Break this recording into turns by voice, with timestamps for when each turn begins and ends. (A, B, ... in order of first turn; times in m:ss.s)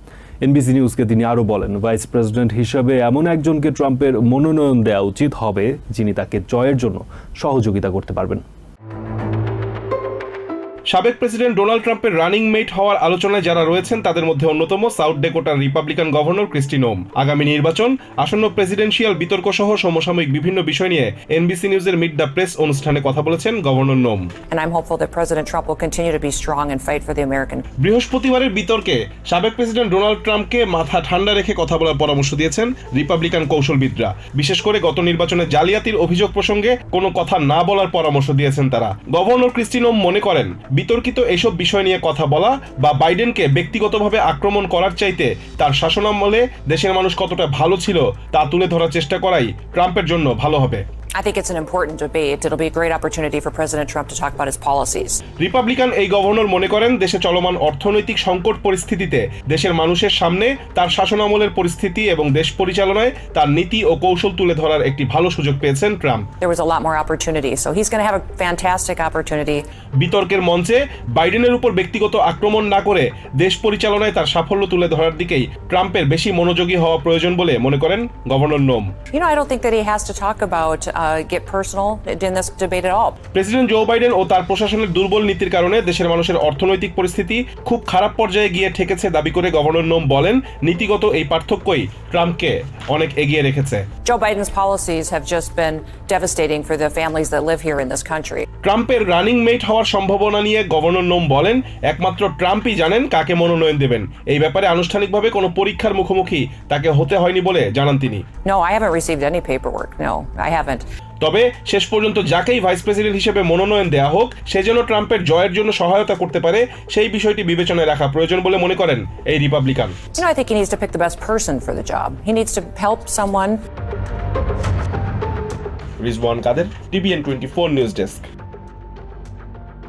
0:00.4-0:08.4 A
0:10.9-0:24.3 B
0:24.5-0:27.6 C
0:27.8-0:50.8 B
0:51.2-0:55.2 C
0:55.4-1:06.2 B
1:06.4-1:09.6 C
1:10.0-1:18.9 B
1:19.1-1:23.2 C
1:23.3-1:33.8 B
1:34.0-1:38.4 C
1:38.6-1:48.2 B
1:48.4-1:50.8 C
1:51.2-2:00.0 B
2:00.2-2:03.6 C
2:06.0-2:08.2 B